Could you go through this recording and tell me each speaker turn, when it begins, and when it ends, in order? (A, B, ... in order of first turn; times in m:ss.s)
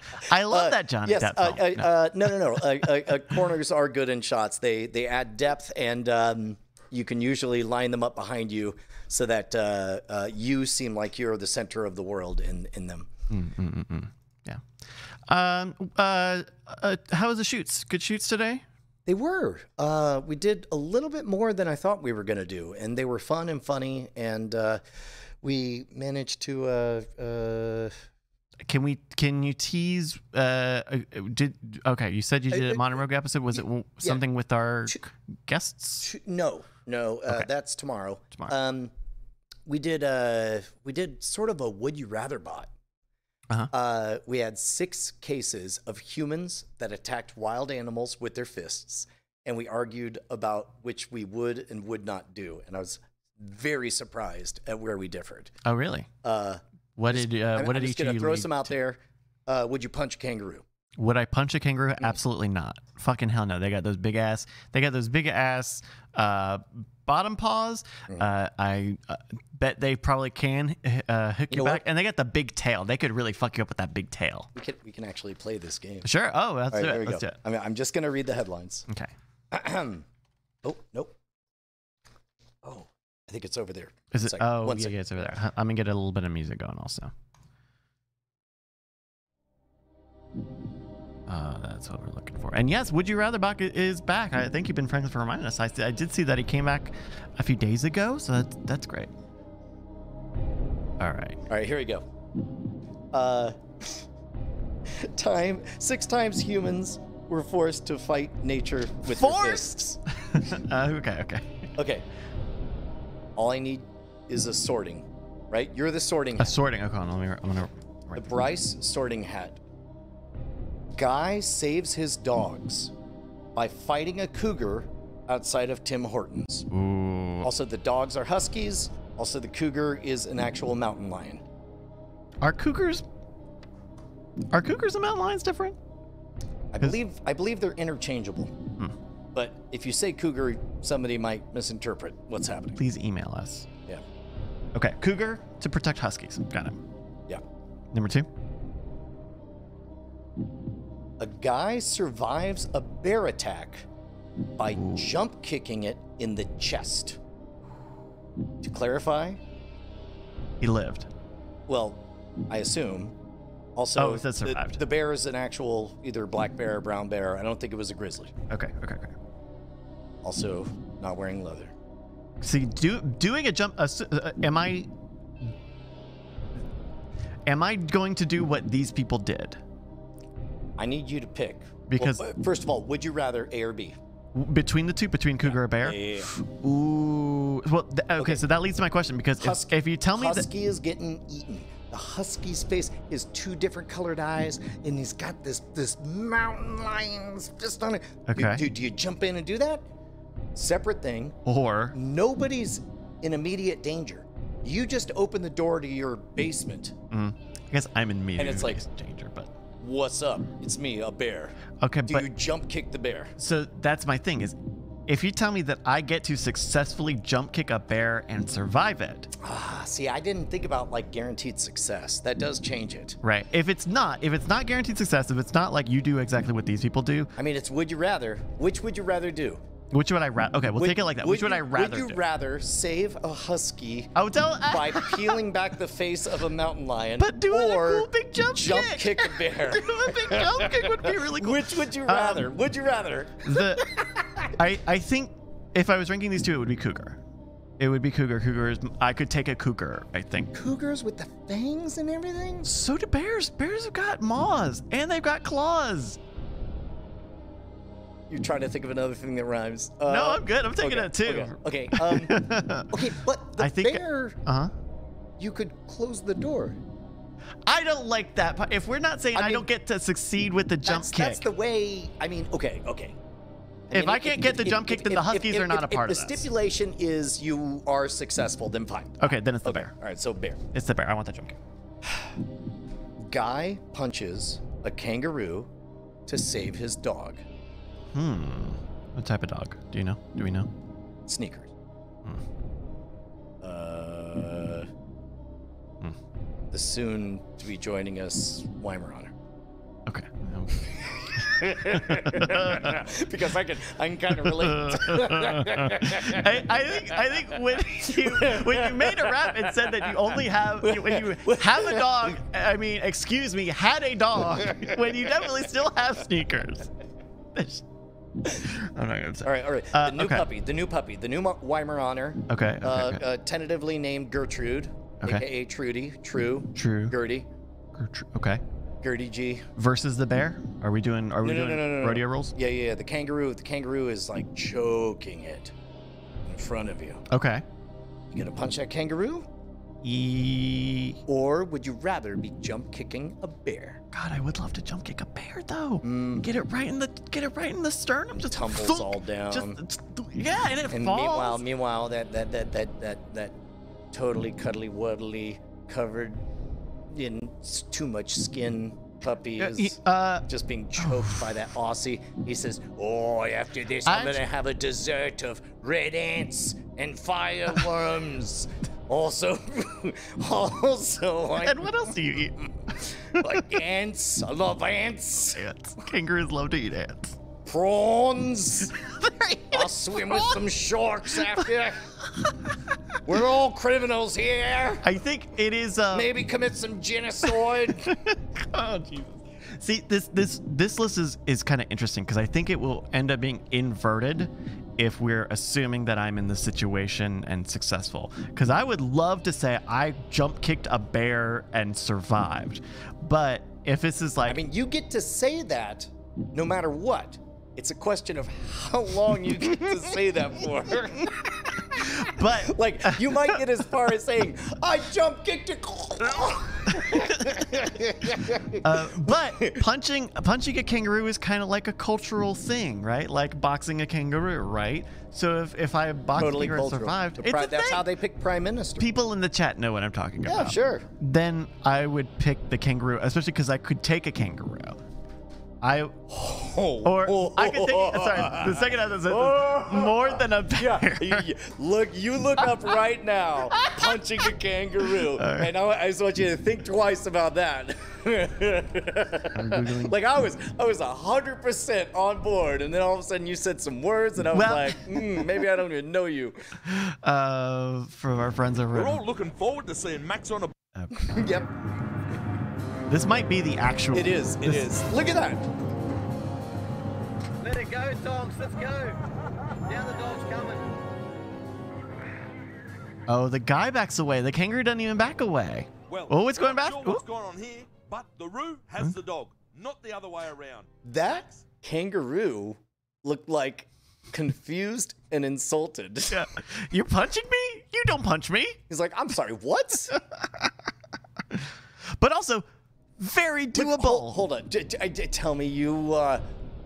0:00.2-0:02.0 A
0:00.5-0:13.1 B
0:13.3-0:14.6 A
0:15.3-0:18.6 A
0:19.0-0:24.8 B
0:25.4-0:27.9 B
0:28.6-0:36.1 A
0:32.5-0:32.8 B
0:36.0-0:38.9 B
0:39.6-0:42.7 B
0:43.7-0:55.5 B
0:55.6-0:56.1 A
0:56.2-1:00.6 B
0:57.0-0:58.7 A
1:01.0-1:14.5 A
1:11.5-1:11.8 B
1:14.5-1:16.1 B
1:16.0-1:17.4 A
1:16.7-1:18.8 B
1:19.5-1:20.0 B
1:20.6-1:21.1 B
1:22.6-1:24.9 B
1:24.1-1:27.1 A
1:31.3-1:39.1 A
1:41.0-1:41.4 A
1:41.5-1:42.0 B
1:43.1-1:44.0 B
1:44.9-1:50.0 B
1:49.1-1:51.7 A
1:51.8-1:52.0 B
1:53.4-1:56.5 B
1:56.4-1:58.2 A
1:58.2-1:59.6 B
2:00.9-2:02.9 B
2:03.5-2:06.7 B
2:06.7-2:07.5 A
2:07.4-2:11.4 B
2:12.4-2:13.0 A
2:14.5-2:15.8 A
2:16.7-2:18.5 B
2:19.3-2:22.8 B
2:22.8-2:23.7 A
2:24.7-2:26.8 A
2:27.9-2:28.3 A
2:31.2-2:33.9 B
2:34.6-2:37.2 B
2:34.7-2:35.0 A
2:38.6-2:39.4 B
2:40.6-2:41.1 A
2:41.7-2:43.1 B
2:43.8-2:48.3 B
2:44.0-2:44.8 A
2:48.5-2:49.1 A
2:50.2-2:51.7 B
2:52.4-2:54.9 A
2:57.4-2:59.6 A
3:00.8-3:04.0 B
3:01.9-3:02.2 A
3:04.3-3:10.4 A
3:05.4-3:06.3 B
3:09.4-3:19.8 B
3:18.3-3:18.6 A
3:20.5-3:21.4 B
3:21.4-3:22.0 A
3:21.9-3:26.9 B
3:27.1-3:29.5 A
3:28.4-3:28.8 B
3:29.8-3:31.5 B
3:31.8-3:32.3 A
3:32.1-3:33.3 B
3:33.4-3:34.6 A
3:35.1-3:39.3 A
3:39.4-3:43.2 B
3:43.2-3:47.3 A
3:47.4-3:49.6 B
3:49.9-3:52.2 A
3:50.8-3:54.1 B
3:54.1-3:55.4 A
3:54.7-4:04.5 B
3:57.2-4:02.5 A
4:03.4-4:03.9 A
4:04.5-4:07.2 A
4:07.8-4:10.5 A
4:10.5-4:12.7 B
4:12.6-4:16.2 A
4:18.3-4:24.4 B
4:20.1-4:24.7 A
4:25.4-4:26.8 B
4:27.6-4:31.4 A
4:29.3-4:29.7 B
4:30.8-4:33.2 B
4:33.9-4:40.6 B
4:33.9-4:36.4 A
4:39.2-4:39.9 A
4:40.7-4:41.6 A
4:43.2-4:45.7 B
4:46.3-4:47.4 B
4:48.1-4:50.7 A
4:51.2-4:51.7 B
4:53.6-4:54.9 B
4:56.7-4:59.3 B
5:00.1-5:03.0 A
5:01.2-5:07.4 B
5:04.4-5:16.9 A
5:08.0-5:12.3 B
5:14.6-5:14.9 B
5:17.5-5:17.8 A
5:18.5-5:20.4 A
5:19.4-5:27.5 B
5:22.5-5:23.2 A
5:26.7-5:27.2 A
5:27.9-5:28.6 A
5:29.0-5:29.7 B
5:29.8-5:32.5 A
5:31.4-5:35.7 B
5:36.4-5:37.2 B
5:37.3-5:37.6 A
5:38.3-5:39.5 B
5:40.0-5:41.2 A
5:41.2-5:44.0 B
5:44.1-5:51.6 A
5:46.0-5:46.4 B
5:48.5-5:49.8 B
5:50.9-5:53.6 B
5:54.1-5:56.4 B
5:57.1-6:15.6 B
5:59.6-6:00.5 A
6:01.0-6:01.4 A
6:04.0-6:04.4 A
6:11.6-6:12.6 A
6:13.3-6:13.8 A
6:15.5-6:17.4 A
6:17.6-6:18.9 B
6:19.0-6:20.6 A
6:19.7-6:22.0 B
6:22.3-6:22.9 A
6:23.2-6:25.0 B
6:25.0-6:26.3 A
6:26.1-6:28.1 B
6:28.0-6:44.6 A
6:44.5-6:59.8 B
6:51.9-6:53.5 A
6:57.0-6:57.6 A
6:58.8-7:08.1 A
7:06.3-7:09.0 B
7:09.0-7:15.0 A
7:10.4-7:11.1 B
7:15.8-7:16.2 A
7:16.3-7:36.7 B
7:17.0-7:21.4 A
7:23.7-7:24.0 A
7:25.4-7:25.7 A
7:29.5-7:30.1 A
7:34.5-7:35.6 A
7:36.8-7:39.2 A
7:38.9-7:40.7 C
7:40.9-7:41.5 A
7:41.2-7:41.7 B
7:43.1-7:44.9 A
7:44.1-7:45.6 B
7:47.7-7:49.1 D
7:49.9-7:50.8 D
7:53.3-7:57.2 A
7:56.1-8:00.8 C
8:01.0-8:06.4 B
8:06.3-8:08.8 A
8:08.9-8:10.1 B
8:10.2-8:10.7 A
8:11.5-8:12.6 A
8:13.2-8:14.4 A
8:13.7-8:16.4 B